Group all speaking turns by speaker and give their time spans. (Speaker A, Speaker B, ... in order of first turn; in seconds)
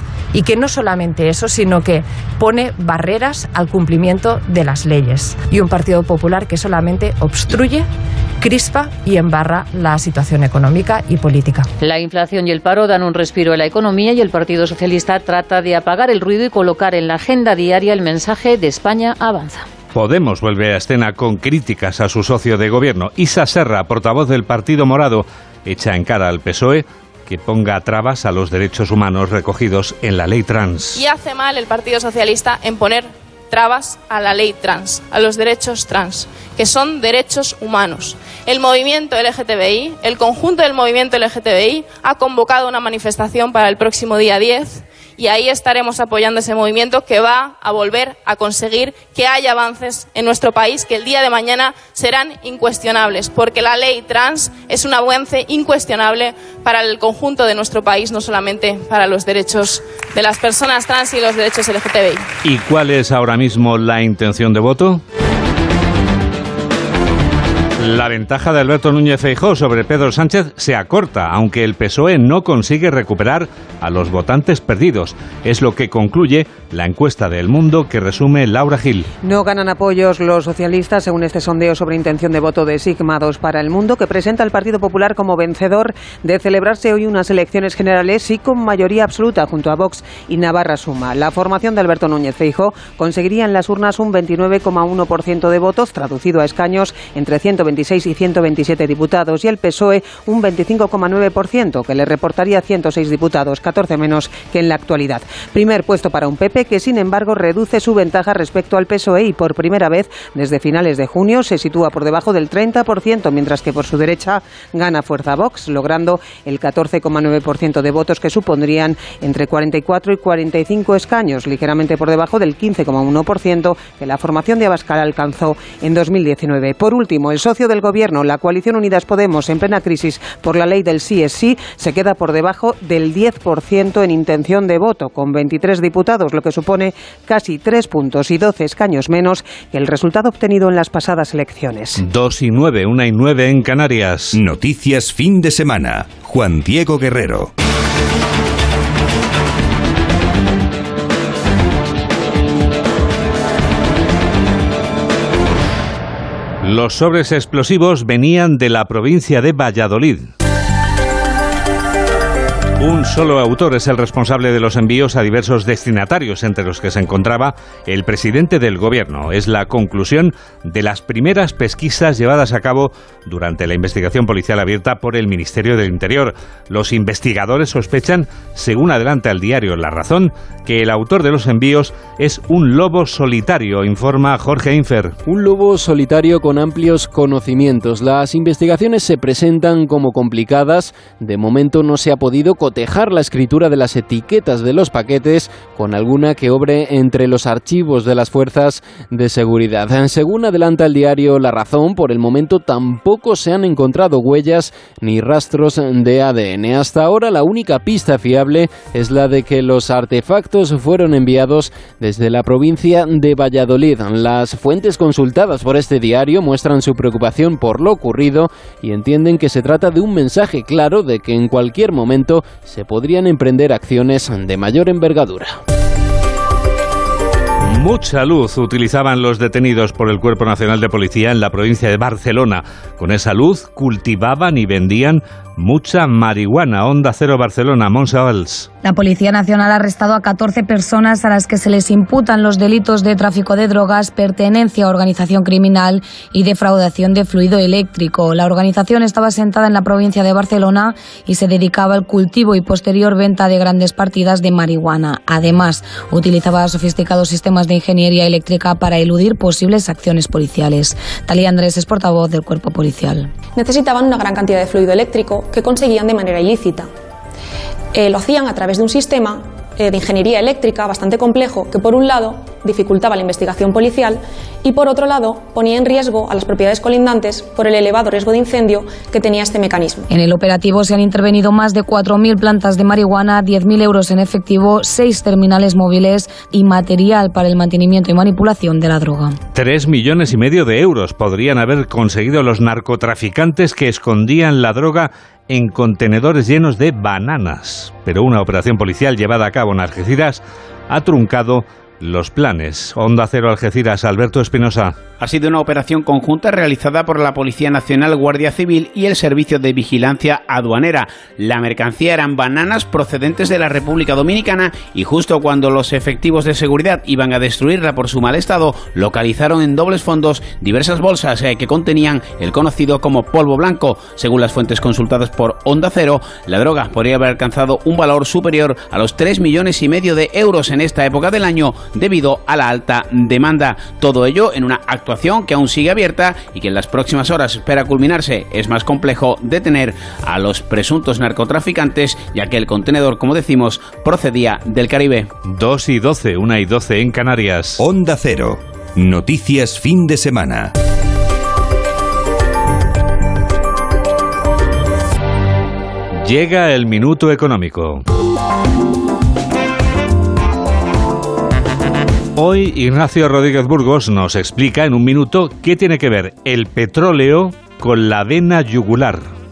Speaker A: 0.3-7.9, 8.4-11.7
Speaker B: 11.8-19.7
Speaker C: 19.9-31.0, 62.4-65.0, 67.8-79.1, 142.0-144.4, 156.6-160.3, 162.8-185.2, 227.7-238.7, 289.5-305.0, 345.5-347.8, 356.2-358.0, 362.4-369.3
Speaker D: 30.9-62.3
Speaker E: 79.2-142.0
Speaker F: 144.3-147.5, 347.8-350.7
Speaker G: 185.3-225.6
Speaker H: 238.8-263.3, 280.1-289.4
Speaker I: 263.6-266.9, 267.9-280.1
Speaker J: 305.2-345.3